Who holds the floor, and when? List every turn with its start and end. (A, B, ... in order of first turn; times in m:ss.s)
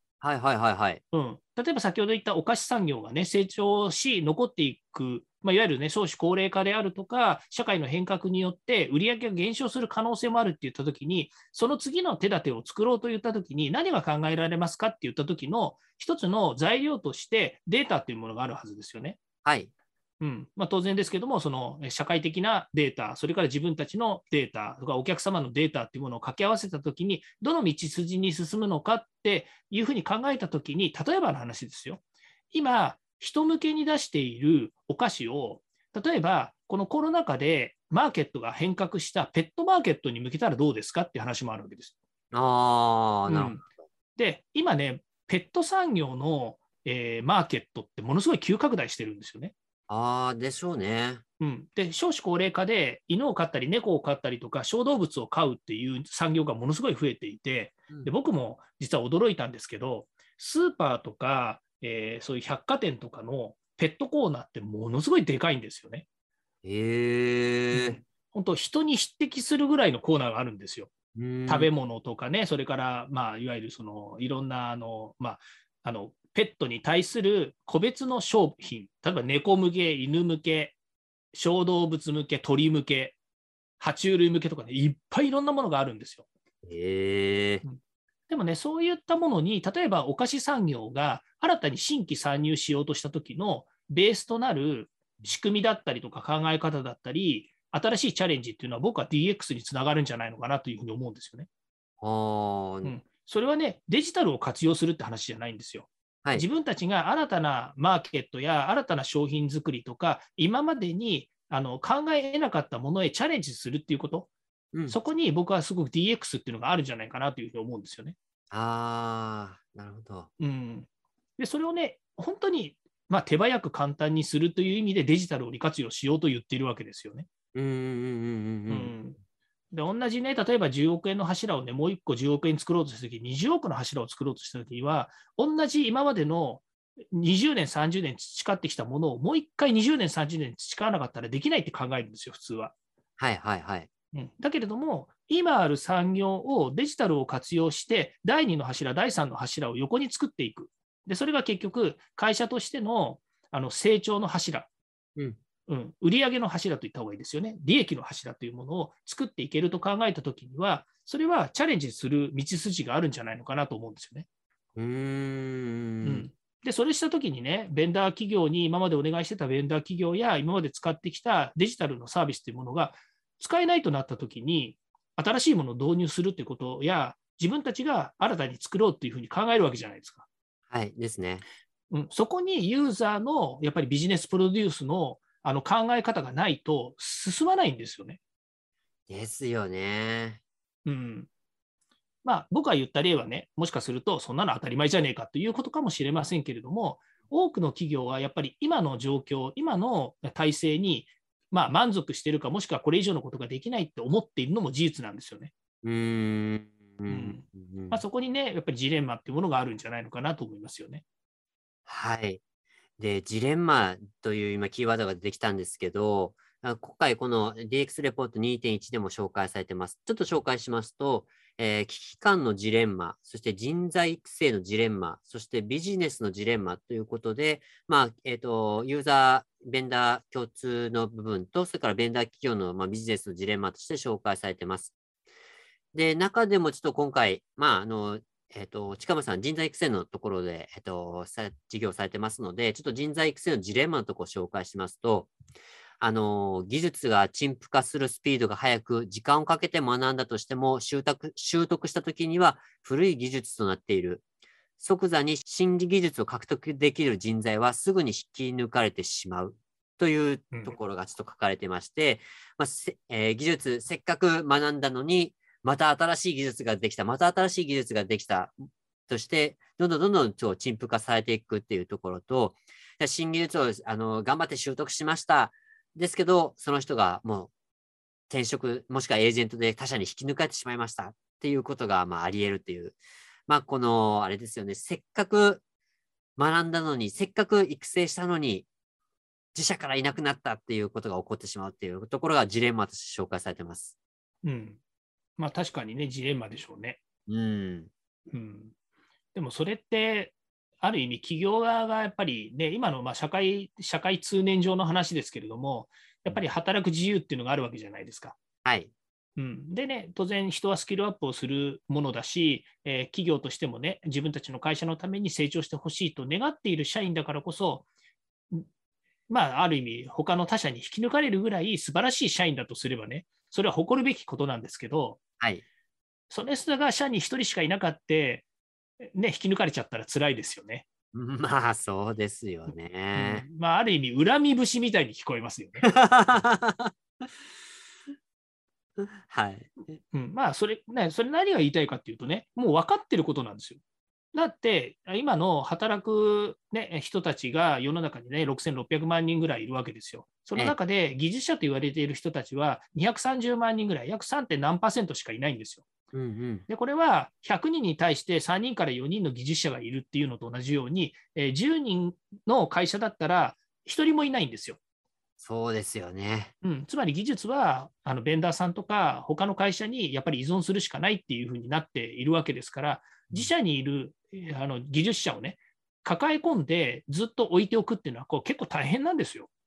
0:00.2-0:01.0 A
0:01.1-0:19.2 B
0:19.4-0:19.7 A
0:20.2-0:32.0 B
0:32.5-0:41.9 B
0:42.3-0:43.6 A
0:43.3-0:43.6 B
0:44.2-0:49.5 B
0:49.9-0:51.2 A
0:51.4-1:06.0 B
1:06.6-1:08.0 A
1:07.7-1:10.9 B
1:11.1-1:11.7 A
1:11.4-1:20.8 B
1:21.3-1:23.2 B
1:23.8-1:26.2 B
1:26.6-1:27.6 A
1:27.6-1:41.5 B
1:42.0-1:42.9 A
1:42.8-1:54.3 B
1:54.9-1:58.1 B
1:58.5-2:00.3 A
2:00.4-2:00.9 B
2:01.4-2:07.3 B
2:07.5-2:08.9 A
2:08.7-2:09.2 B
2:09.7-2:22.7 B
2:23.2-2:23.9 A
2:24.1-2:34.7 B
2:35.7-2:44.2 B
2:44.8-2:46.3 A
2:46.0-3:00.2 B
3:00.7-3:01.4 A
3:01.9-3:08.2 B
3:09.1-3:10.4 A
3:10.8-3:11.3 B
3:12.2-3:25.5 B
3:25.8-3:28.0 A
3:27.1-3:31.0 B
3:31.9-3:32.4 A
3:33.0-3:54.9 A
3:55.9-4:05.3 A
4:06.0-4:14.2 A
4:14.8-4:28.5 A
4:29.1-4:37.5 A
4:38.3-4:45.6 A
4:46.4-4:48.7 A
4:49.5-4:53.9 A
4:54.4-4:54.8 B
4:55.4-4:57.0 B
4:57.3-4:57.9 A
4:58.3-4:58.7 B
4:59.3-5:08.4 B
5:08.6-5:08.9 A
5:09.4-5:17.9 B
5:19.3-5:25.2 B
5:26.3-5:28.4 B
5:29.0-5:30.8 B
5:31.1-5:33.4 A
5:33.1-5:35.8 B
5:35.8-5:36.9 A
5:39.0-5:39.7 A
5:40.1-5:43.8 B
5:44.3-5:55.8 B
5:56.1-5:56.6 A
5:56.7-6:04.8 B
6:05.4-6:06.5 A
6:06.6-6:19.5 B